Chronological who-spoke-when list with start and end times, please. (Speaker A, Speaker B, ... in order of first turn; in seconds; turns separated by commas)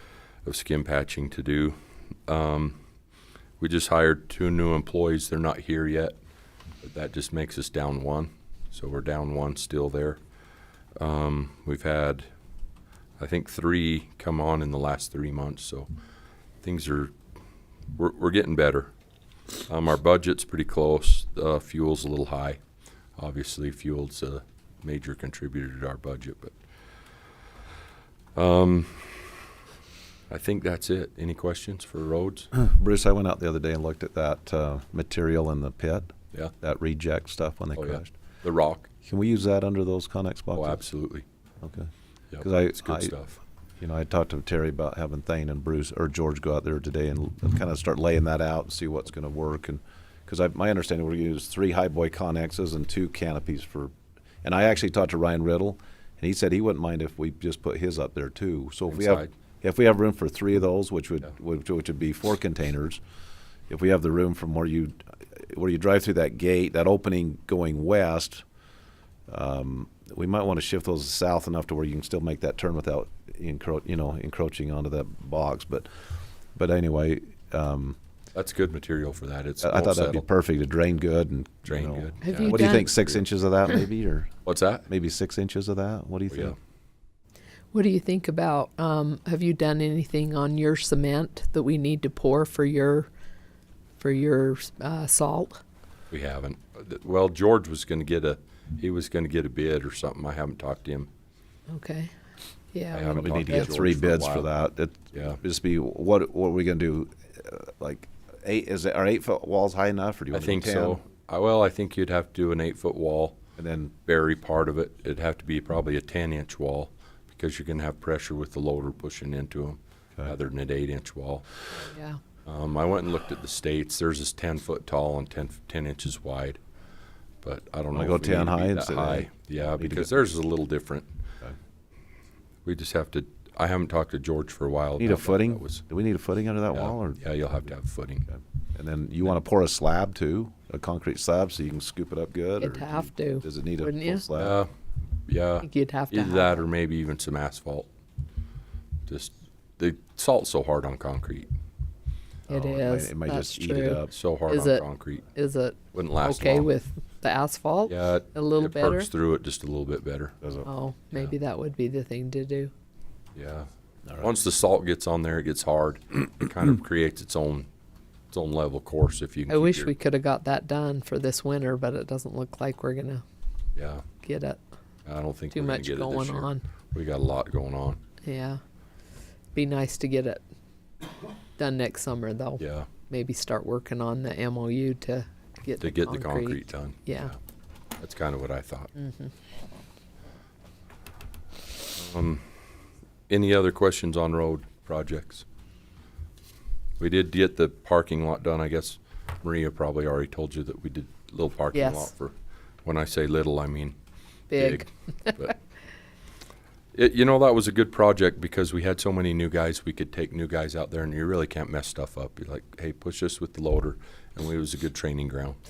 Speaker A: 0.4-1.8, Speaker A: 2.3-2.8, Speaker A: 3.6-6.2, Speaker A: 6.8-10.2, Speaker A: 11.0-12.3, Speaker A: 13.2-15.9, Speaker A: 16.6-17.1, Speaker A: 17.9-18.9, Speaker A: 19.6-22.6, Speaker A: 23.2-26.5, Speaker A: 28.3-29.4, Speaker A: 30.3-32.5, Speaker B: 32.5-38.1, Speaker A: 37.8-38.9, Speaker B: 39.0-40.8, Speaker A: 40.5-41.2, Speaker B: 41.6-43.2, Speaker A: 42.3-43.4, Speaker B: 43.8-53.9, Speaker B: 54.4-63.0, Speaker A: 58.9-59.3, Speaker B: 63.7-68.4, Speaker B: 69.3-76.0, Speaker B: 76.5-78.0, Speaker A: 78.3-80.2, Speaker B: 79.6-84.3, Speaker A: 81.6-83.2, Speaker C: 82.2-82.9, Speaker A: 84.4-84.8, Speaker B: 84.9-86.5, Speaker A: 86.3-86.5, Speaker C: 87.7-93.1, Speaker C: 94.0-95.6, Speaker A: 96.1-101.1, Speaker C: 101.7-102.1, Speaker C: 102.7-103.7, Speaker A: 102.9-104.5, Speaker B: 103.1-111.0, Speaker A: 105.1-105.4, Speaker A: 110.3-113.4, Speaker B: 113.6-113.9, Speaker A: 114.0-121.6, Speaker C: 121.8-122.2, Speaker A: 122.4-126.6, Speaker A: 127.4-131.1, Speaker B: 127.9-130.1, Speaker A: 132.6-135.8, Speaker B: 135.0-137.3, Speaker A: 136.7-138.3, Speaker B: 138.3-144.6, Speaker C: 142.6-144.2, Speaker A: 144.3-144.7, Speaker A: 145.2-147.9, Speaker C: 145.6-146.6, Speaker A: 149.1-151.5, Speaker C: 152.5-154.8, Speaker B: 152.5-154.1, Speaker A: 154.1-155.3, Speaker C: 155.3-159.1, Speaker A: 155.9-156.7, Speaker A: 157.9-160.3, Speaker B: 160.4-160.7, Speaker C: 160.6-162.7, Speaker A: 163.3-163.7, Speaker B: 164.1-164.3, Speaker A: 164.2-167.7, Speaker A: 168.3-169.9, Speaker C: 169.5-173.2, Speaker A: 173.8-174.0, Speaker C: 174.2-174.6, Speaker A: 175.1-178.0, Speaker C: 175.5-176.6, Speaker C: 178.2-178.6, Speaker C: 179.5-180.4, Speaker C: 181.6-187.3, Speaker A: 182.6-182.9, Speaker A: 185.8-187.4, Speaker A: 188.0-188.9, Speaker C: 188.9-189.3, Speaker A: 191.9-192.4, Speaker A: 193.3-195.4, Speaker A: 197.0-203.9, Speaker C: 201.7-202.1, Speaker C: 204.5-205.5, Speaker A: 204.5-205.5, Speaker A: 206.9-215.6